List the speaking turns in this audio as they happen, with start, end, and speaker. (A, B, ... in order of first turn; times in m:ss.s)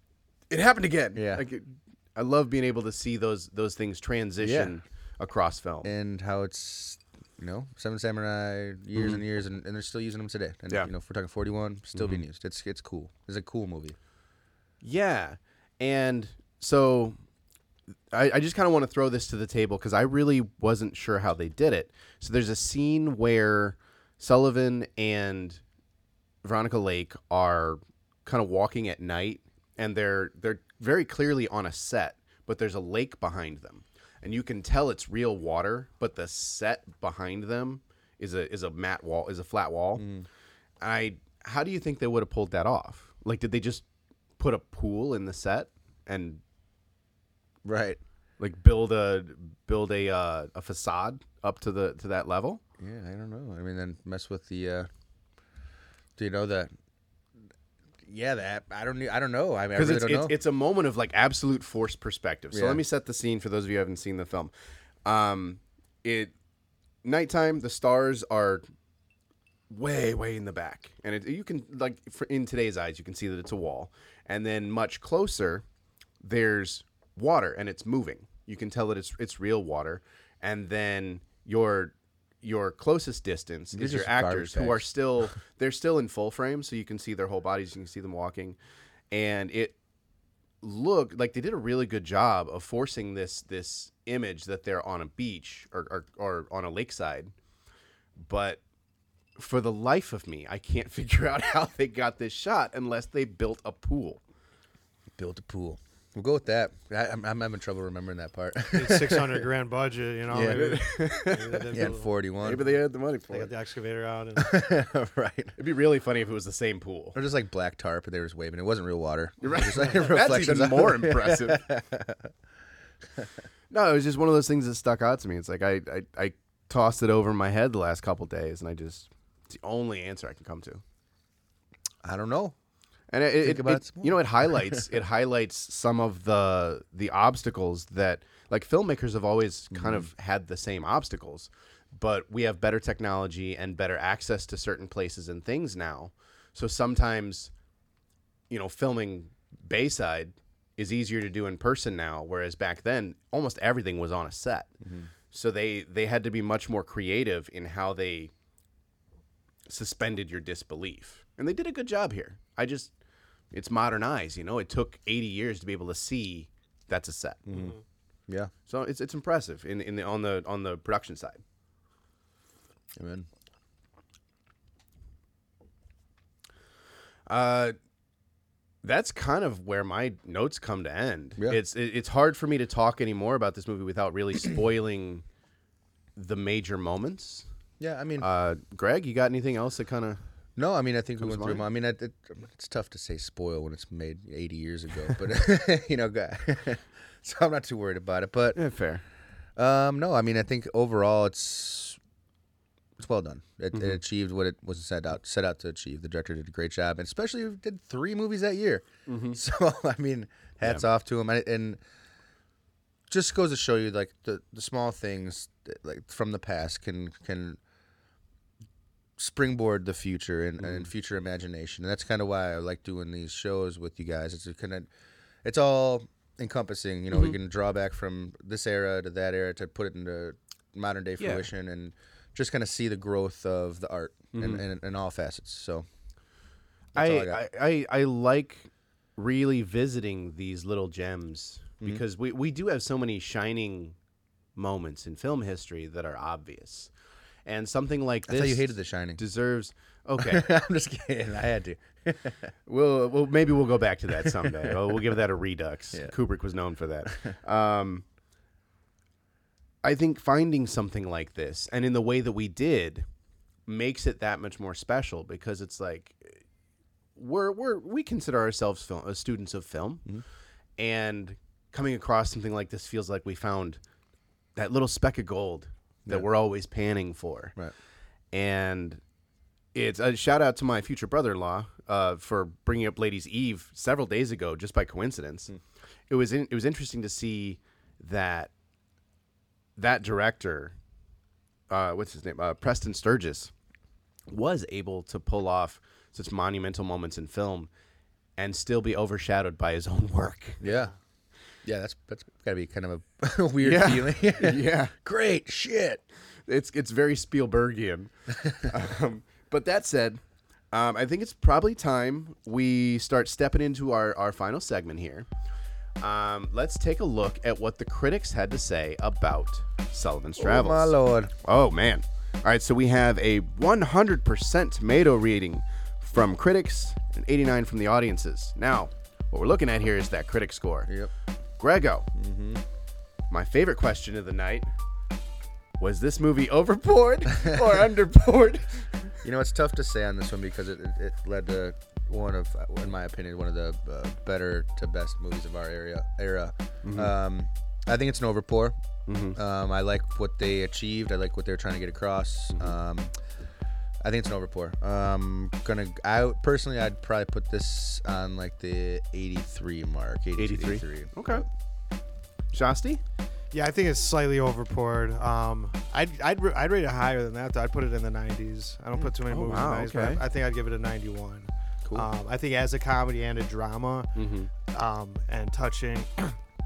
0:00.5-0:05.9 A
0:01.1-0:01.4 B
0:04.4-0:04.7 B
0:05.8-0:14.0 B
0:11.9-0:12.2 A
0:14.8-0:17.2 A
0:18.1-0:25.6 A
0:26.4-0:40.1 A
0:40.0-0:40.3 B
0:40.8-0:43.8 A
0:44.4-0:46.4 A
0:47.6-0:48.0 B
0:48.4-0:52.6 A
0:52.8-0:54.9 B
0:56.2-0:56.7 B
0:58.0-1:00.3 B
0:59.7-1:04.5 A
1:02.5-1:02.8 B
1:05.0-1:06.3 A
1:07.0-1:08.6 A
1:09.7-1:15.6 A
1:16.2-1:28.6 A
1:23.7-1:24.8 B
1:29.1-1:29.8 A
1:30.6-1:37.3 A
1:38.2-1:38.6 A
1:39.4-1:44.2 A
1:45.2-1:49.4 B
1:48.7-1:52.1 C
1:50.3-1:50.7 B
1:50.4-1:51.7 A
1:51.7-1:52.7 B
1:52.4-1:53.5 A
1:53.3-1:54.5 C
1:54.4-1:55.5 B
1:55.6-1:57.2 A
1:57.1-2:02.3 B
1:59.4-2:01.6 A
2:03.7-2:10.8 A
2:12.0-2:12.5 B
2:13.1-2:27.5 A
2:13.4-2:14.9 B
2:19.7-2:20.1 B
2:28.5-2:34.7 A
2:34.8-2:35.1 B
2:35.3-2:38.3 A
2:39.7-2:42.9 A
2:43.5-2:47.7 A
2:47.5-2:47.7 B
2:47.5-2:47.8 C
2:48.6-2:51.4 A
2:53.0-2:53.2 B
2:57.3-2:57.8 A
2:58.8-3:05.2 A
3:06.2-3:07.5 A
3:07.8-3:08.3 B
3:08.2-3:10.2 A
3:10.6-3:18.6 B
3:11.2-3:11.6 A
3:18.5-3:19.0 A
3:19.6-3:22.0 B
3:23.0-3:31.8 B
3:23.7-3:24.0 A
3:29.0-3:29.4 A
3:30.6-3:30.9 A
3:33.1-3:37.6 B
3:39.2-3:44.9 B
3:40.6-3:40.8 A
3:45.4-3:55.8 B
3:47.1-3:47.4 A
3:51.2-3:51.5 A
3:54.3-3:54.6 A
3:56.9-3:57.4 B
3:56.9-4:04.0 A
4:04.5-4:06.9 A
4:07.4-4:10.5 A
4:08.3-4:09.2 B
4:10.2-4:12.5 B
4:12.6-4:18.0 A
4:14.2-4:14.9 B
4:17.0-4:17.3 B
4:19.8-4:23.0 A
4:23.6-4:26.4 A
4:27.2-4:30.1 A
4:30.8-4:33.8 A
4:34.6-4:37.6 A
4:38.3-4:39.0 A
4:39.7-4:45.5 A
4:46.1-4:48.5 A
4:49.8-4:50.7 A
4:51.7-4:53.5 A
4:54.3-4:57.7 A
4:58.4-5:00.6 A
5:00.6-5:00.9 C
5:00.6-5:00.9 B
5:01.6-5:06.0 B
5:03.6-5:04.9 A
5:06.4-5:15.3 A
5:16.0-5:30.9 A
5:20.4-5:21.3 B
5:31.6-5:32.1 A
5:32.1-5:32.6 B
5:33.3-5:34.7 A
5:35.8-5:39.2 A
5:39.2-5:48.8 B
5:46.8-5:47.1 A
5:49.1-5:49.4 A
5:49.3-5:53.1 B
5:54.0-6:01.4 B
6:00.4-6:01.4 A
6:02.5-6:03.0 A
6:03.5-6:14.1 C
6:09.3-6:10.2 A
6:14.1-6:14.5 A
6:14.6-6:16.4 C